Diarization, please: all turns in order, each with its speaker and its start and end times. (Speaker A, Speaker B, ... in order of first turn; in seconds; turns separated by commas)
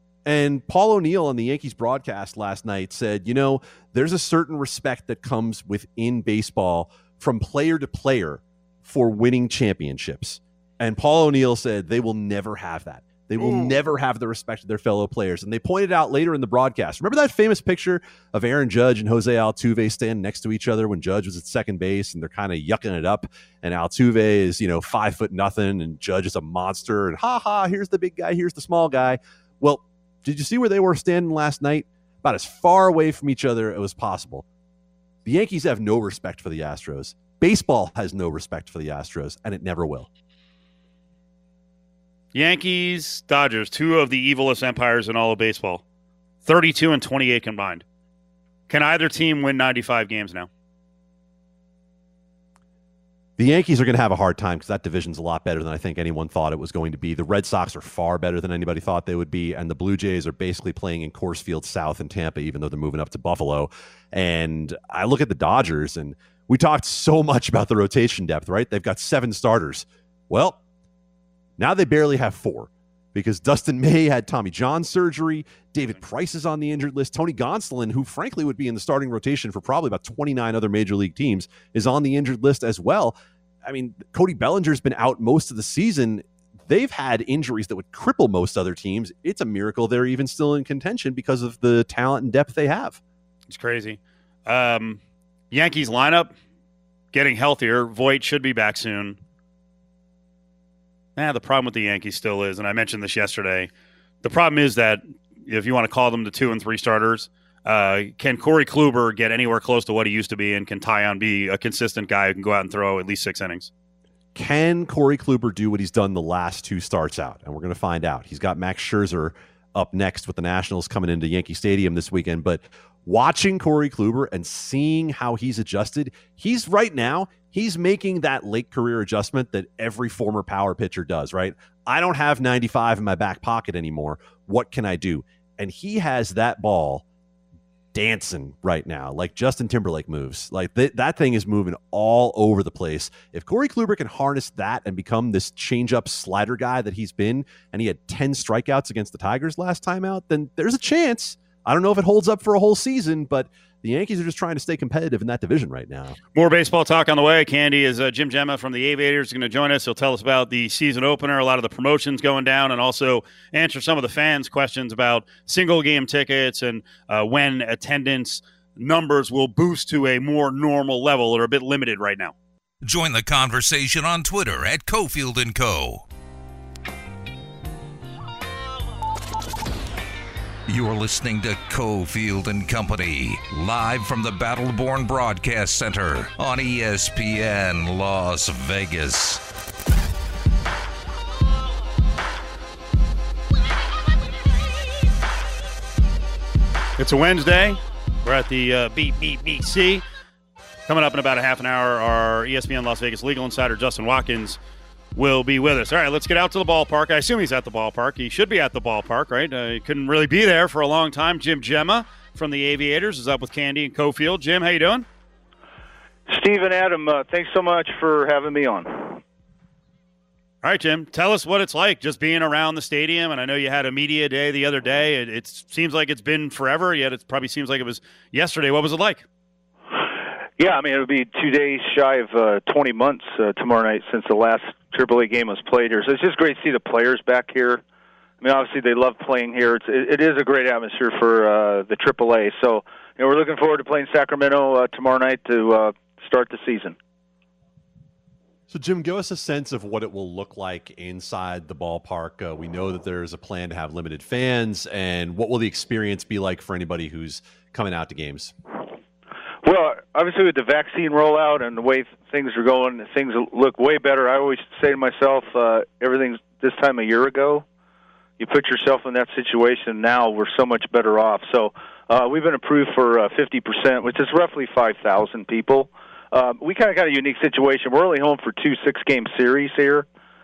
Speaker A: 0.2-34.5, Speaker B: 13.4-13.8, Speaker A: 35.2-40.1, Speaker B: 42.3-45.8, Speaker B: 46.4-47.8, Speaker B: 48.7-50.5, Speaker A: 53.4-70.6, Speaker A: 71.6-93.0, Speaker B: 93.5-95.0, Speaker B: 95.5-96.3, Speaker B: 97.1-99.2, Speaker B: 101.2-103.7, Speaker B: 104.2-113.7, Speaker A: 114.3-137.0, Speaker A: 137.9-156.2, Speaker B: 156.3-172.3, Speaker C: 172.8-176.0, Speaker C: 180.7-189.4, Speaker B: 197.0-200.0, Speaker B: 200.9-204.6, Speaker B: 205.1-215.1, Speaker D: 216.3-219.2, Speaker B: 220.6-229.2, Speaker D: 230.6-237.8, Speaker D: 238.4-247.0, Speaker A: 248.7-258.5, Speaker D: 259.6-267.6, Speaker D: 268.4-280.1